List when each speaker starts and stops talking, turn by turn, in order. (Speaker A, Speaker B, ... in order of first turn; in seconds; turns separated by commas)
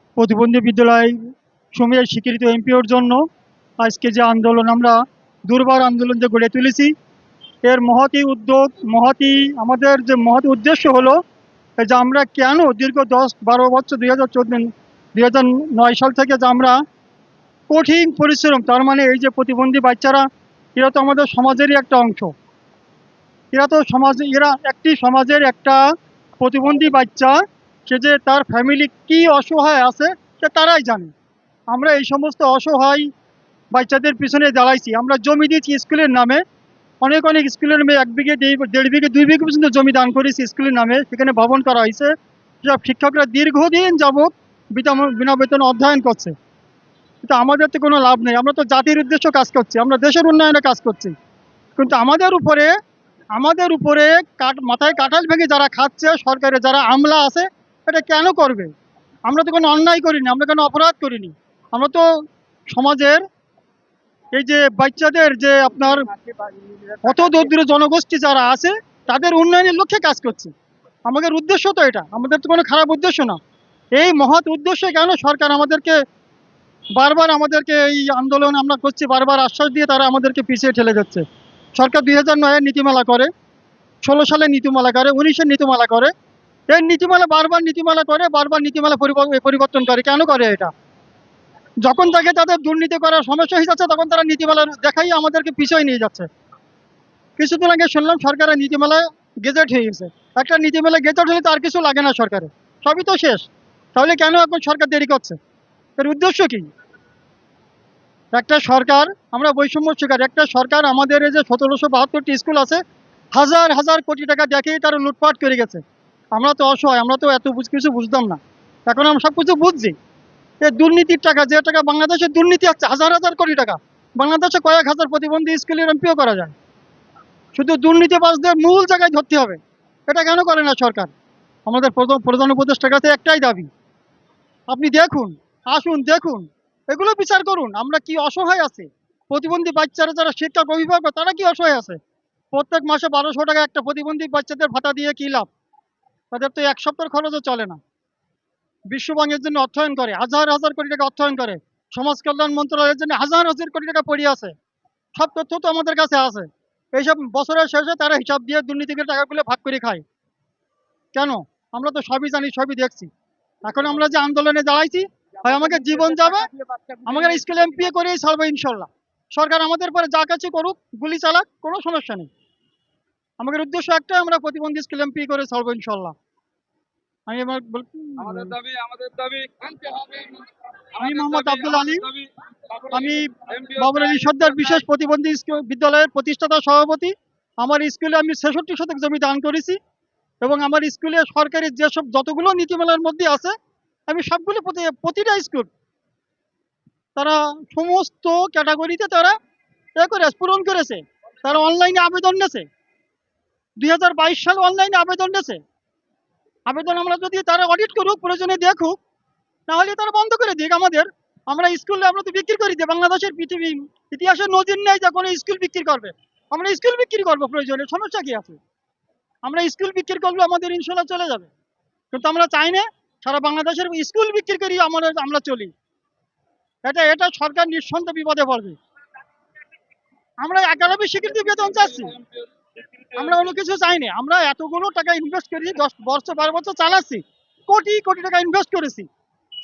Speaker A: 0.2-3.3, Speaker A: 3.8-6.9, Speaker A: 7.7-11.2, Speaker A: 11.8-16.8, Speaker A: 17.7-22.3, Speaker A: 23.5-25.8, Speaker A: 26.4-31.1, Speaker A: 31.7-33.1, Speaker A: 33.7-36.4, Speaker A: 37.0-46.3, Speaker A: 47.2-51.1, Speaker A: 51.8-52.7, Speaker A: 53.4-58.7, Speaker A: 59.3-63.2, Speaker A: 64.3-66.1, Speaker B: 66.0-67.0, Speaker A: 67.0-70.5, Speaker A: 71.1-73.4, Speaker A: 74.0-76.0, Speaker A: 77.0-81.2, Speaker A: 81.8-83.3, Speaker A: 84.0-86.1, Speaker A: 86.7-90.7, Speaker A: 91.8-96.3, Speaker A: 97.4-105.4, Speaker A: 106.0-106.7, Speaker A: 108.3-112.8, Speaker A: 113.4-115.8, Speaker A: 116.3-120.0, Speaker A: 120.6-126.5, Speaker A: 127.5-131.1, Speaker A: 131.7-133.7, Speaker A: 134.7-142.0, Speaker A: 142.5-145.5, Speaker A: 146.3-147.8, Speaker A: 148.9-154.6, Speaker A: 155.2-160.0, Speaker A: 161.1-163.1, Speaker A: 163.6-166.5, Speaker B: 165.4-167.6, Speaker A: 167.1-172.3, Speaker A: 173.4-176.2, Speaker A: 177.3-178.6, Speaker B: 178.2-182.8, Speaker A: 181.0-182.1, Speaker A: 182.8-189.8, Speaker B: 183.4-184.4, Speaker A: 190.4-193.6, Speaker A: 194.1-195.7, Speaker A: 197.2-199.4, Speaker A: 200.0-202.7, Speaker A: 203.8-205.6, Speaker A: 206.7-209.0, Speaker A: 209.7-218.6, Speaker A: 219.4-221.5, Speaker A: 222.1-225.7, Speaker A: 226.8-228.8, Speaker A: 230.4-232.2, Speaker A: 233.1-239.1